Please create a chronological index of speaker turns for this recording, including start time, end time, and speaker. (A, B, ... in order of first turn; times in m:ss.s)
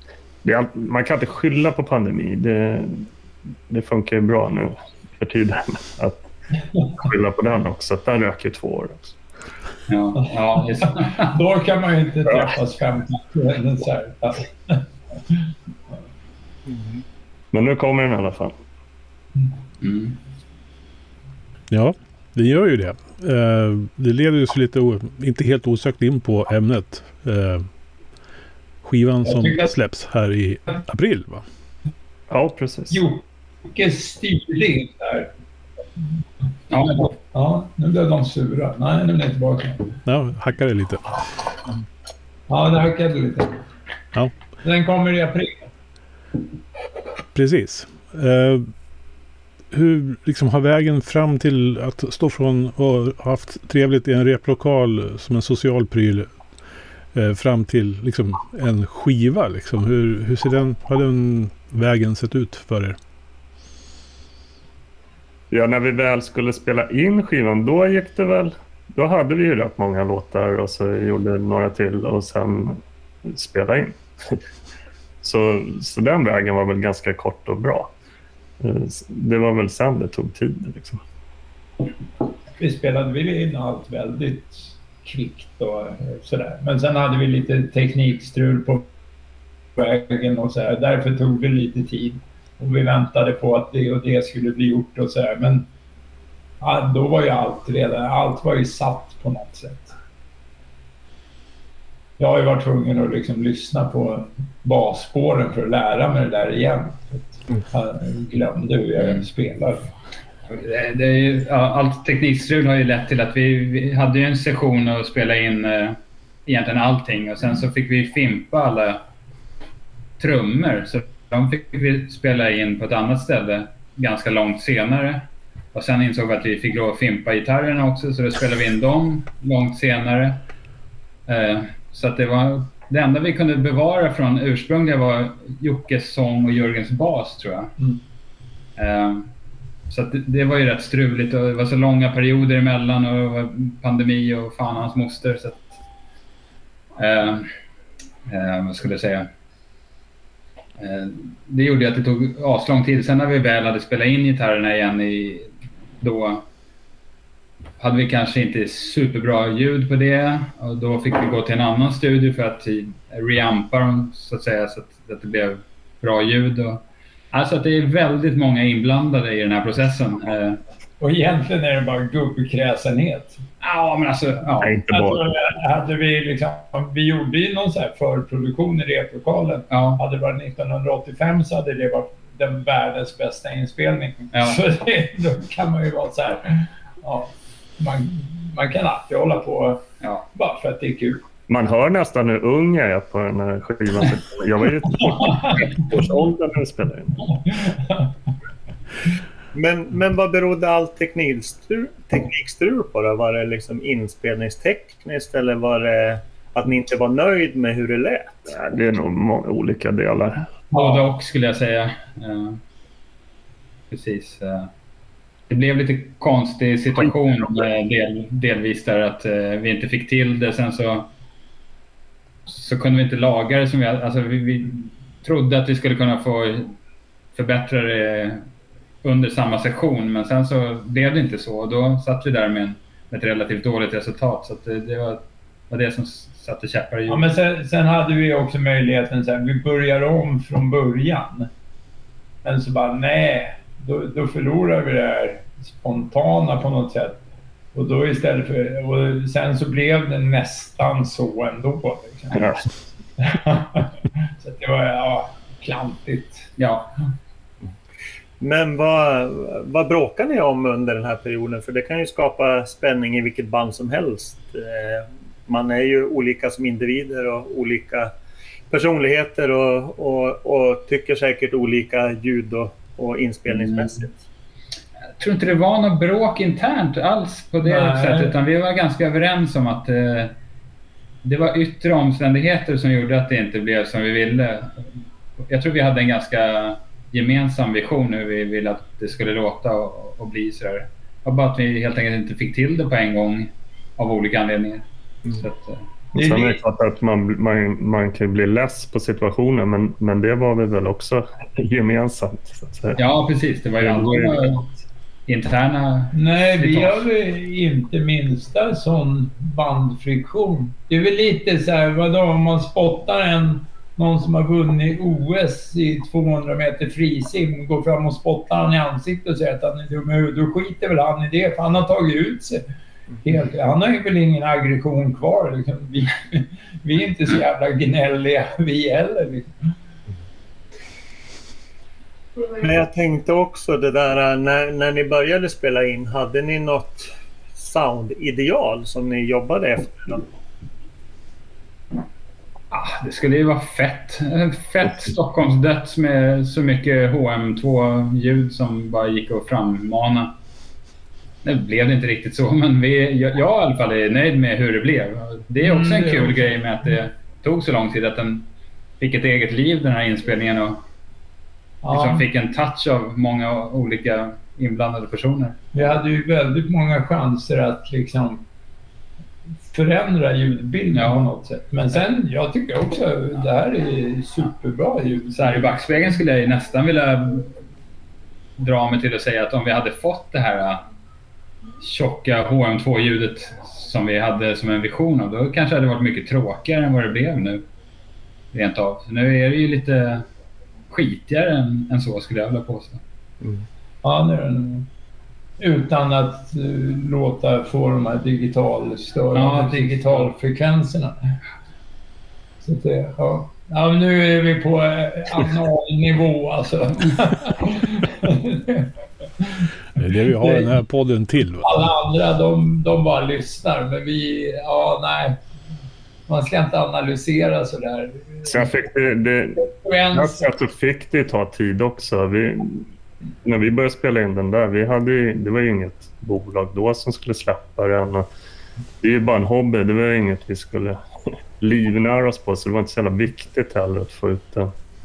0:00.4-0:03.1 A
0:03.7-0:06.2 A
0:07.0-0:09.2 A
0:09.9-0:11.4 B
0:10.8-0:15.5 C
0:16.7-0:17.0 D
0:17.5-0:18.6 A
0:19.8-0:20.2 B
0:21.7-0:27.7 E
0:28.8-0:31.4 E
0:29.2-0:29.7 C
0:32.3-0:33.0 A
0:32.9-0:35.3 C
0:36.7-0:37.1 B
0:37.3-0:40.0 C
0:40.0-0:41.2 E
0:42.5-0:43.5 C
0:44.6-0:45.7 C
0:47.3-0:48.7 E
0:49.7-0:56.3 E
0:57.1-1:03.0 E
1:05.5-1:14.3 A
1:15.2-1:17.9 A
1:18.6-1:21.0 A
1:22.6-1:28.9 C
1:29.8-1:35.7 C
1:36.6-1:40.0 C
1:42.2-1:49.9 C
1:49.0-1:49.2 B
1:50.5-1:59.0 B
2:00.2-2:10.4 B
2:11.3-2:17.7 B
2:18.8-2:19.3 B
2:19.9-2:25.8 B
2:27.0-2:27.5 B
2:28.3-2:29.3 B
2:30.8-2:35.5 B
2:36.0-2:36.4 B
2:37.8-2:50.6 B
2:51.0-2:53.4 C
2:53.6-2:54.8 B
2:54.6-2:55.2 A
2:54.9-3:09.8 C
2:59.7-3:00.0 B
3:04.3-3:04.6 B
3:10.4-3:11.2 C
3:11.5-3:17.2 A
3:15.1-3:15.6 C
3:17.3-3:18.1 C
3:19.5-3:28.6 D
3:28.5-3:30.5 A
3:30.7-3:31.1 C
3:30.7-3:32.6 B
3:33.9-3:34.7 B
3:35.5-3:41.1 B
3:42.5-3:46.7 B
3:47.4-3:48.4 B
3:49.0-3:57.3 B
3:57.1-4:01.5 C
4:02.4-4:07.2 C
4:07.7-4:12.4 C
4:12.3-4:12.7 A
4:13.2-4:16.5 C
4:16.6-4:16.9 B
4:18.4-4:28.1 D
4:28.7-4:34.2 D
4:33.5-4:34.0 B
4:35.2-4:40.3 B
4:37.6-4:38.4 C
4:41.2-4:55.9 B
4:56.1-4:56.6 C
4:56.2-5:03.0 A
5:03.0-5:04.7 B
5:03.8-5:04.6 A
5:05.3-5:07.1 B
5:06.1-5:22.6 C
5:23.2-5:29.5 C
5:32.6-5:40.3 D
5:42.7-5:50.3 B
5:51.4-5:58.5 B
5:55.6-5:56.5 C
5:59.0-6:00.8 B
6:01.8-6:02.3 C
6:01.9-6:05.6 B
6:05.7-6:08.4 C
6:09.7-6:15.7 C
6:10.9-6:11.3 B
6:15.4-6:17.5 B
6:18.6-6:20.8 B
6:21.8-6:27.7 B
6:28.5-6:30.3 B
6:30.9-6:33.0 B
6:33.4-6:33.7 D
6:34.0-6:34.9 C
6:35.6-6:41.4 C
6:39.3-6:40.3 B
6:42.6-6:49.7 C
6:50.0-6:51.8 E
6:50.4-6:50.7 C
6:51.6-6:55.4 C
6:56.3-6:58.7 C
6:58.5-7:02.9 A
6:59.6-7:00.5 C
7:03.4-7:08.3 A
7:09.0-7:11.0 A
7:11.6-7:14.7 A